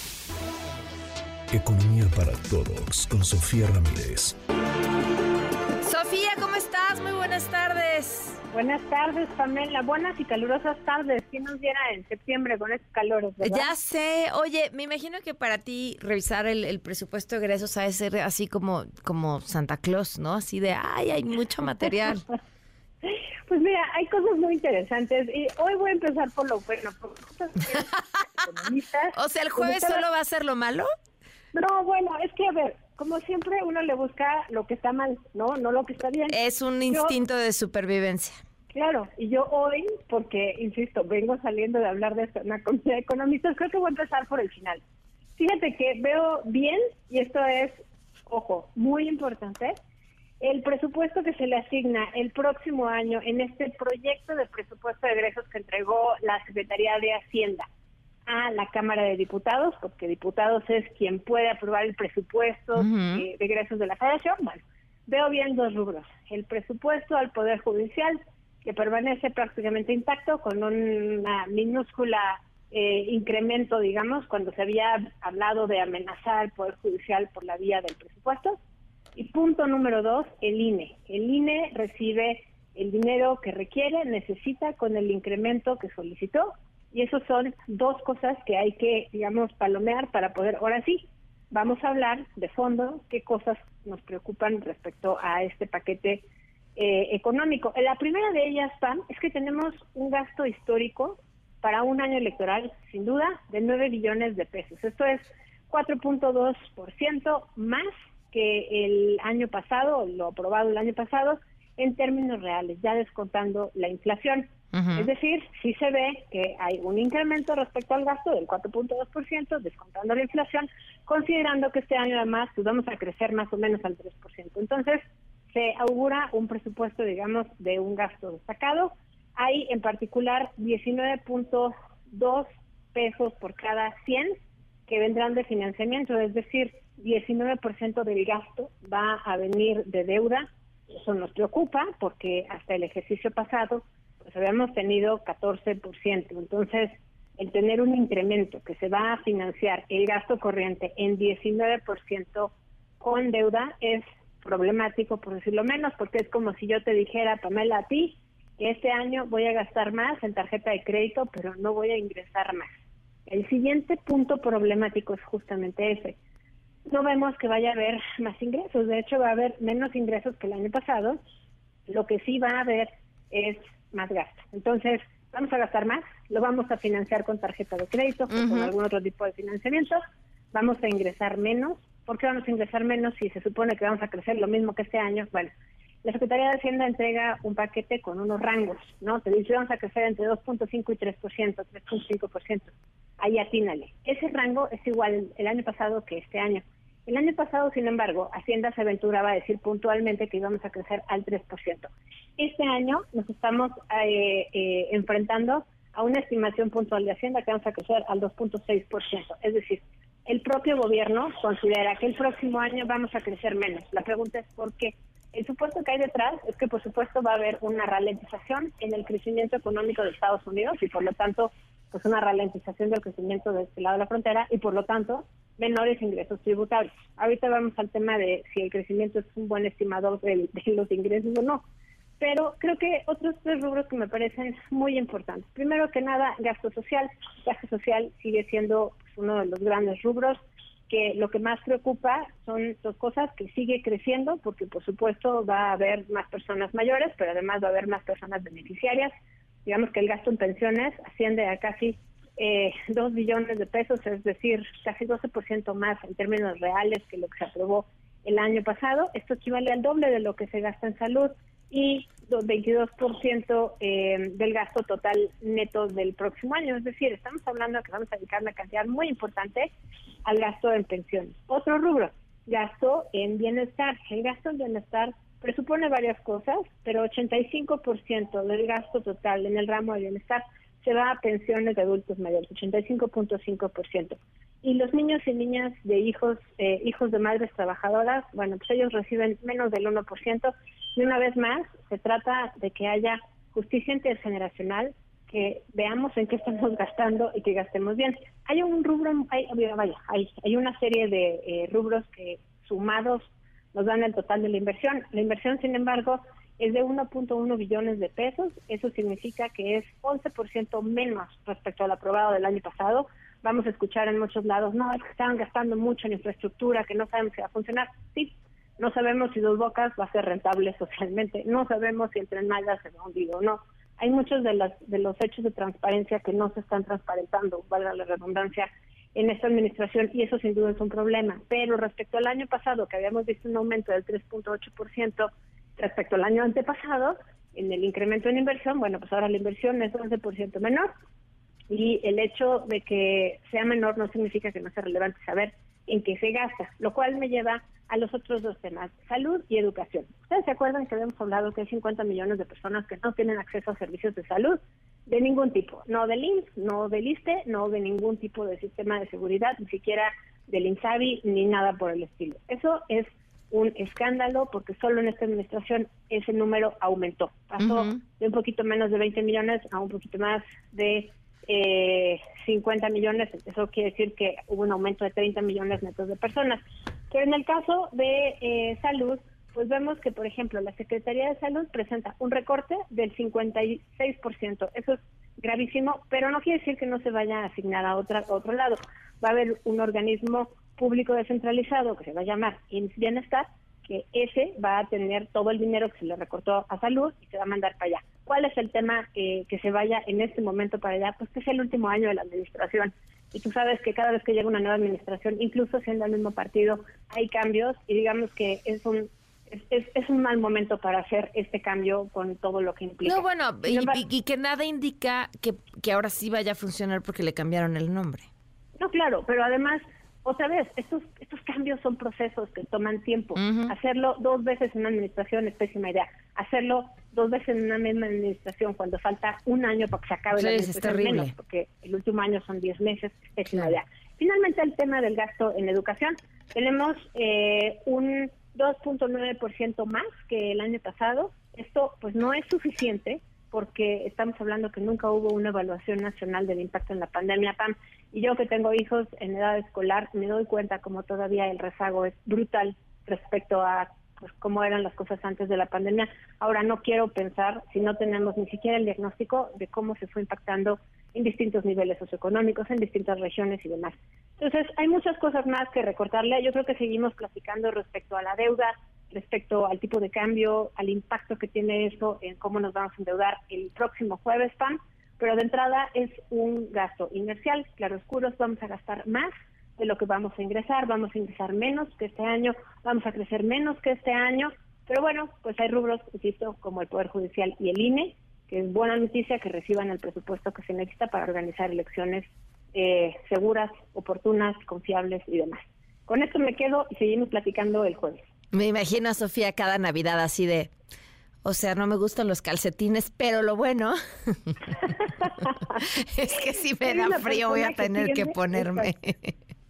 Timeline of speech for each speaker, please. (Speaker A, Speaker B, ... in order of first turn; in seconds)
Speaker A: 1.5-4.3
Speaker B: 5.8-8.4, 13.4-22.2, 29.1-30.9, 36.3-38.4, 62.7-63.2, 114.7-115.1, 178.3-178.7, 367.6-367.9, 413.0-418.3, 423.4-423.7, 430.4-431.3, 498.5-500.7, 501.4-509.3
Speaker C: 8.5-13.7, 23.0-30.0, 31.5-37.2, 38.7-44.8, 45.4-49.8, 50.4-57.6, 58.2-78.6, 79.2-96.2, 96.8-134.3, 134.9-162.7, 163.2-166.2, 166.9-171.2, 171.9-180.0, 180.5-185.5, 186.0-231.6, 232.2-249.1, 249.6-269.7, 270.2-340.9, 341.7-414.0, 418.8-498.2, 506.8-508.9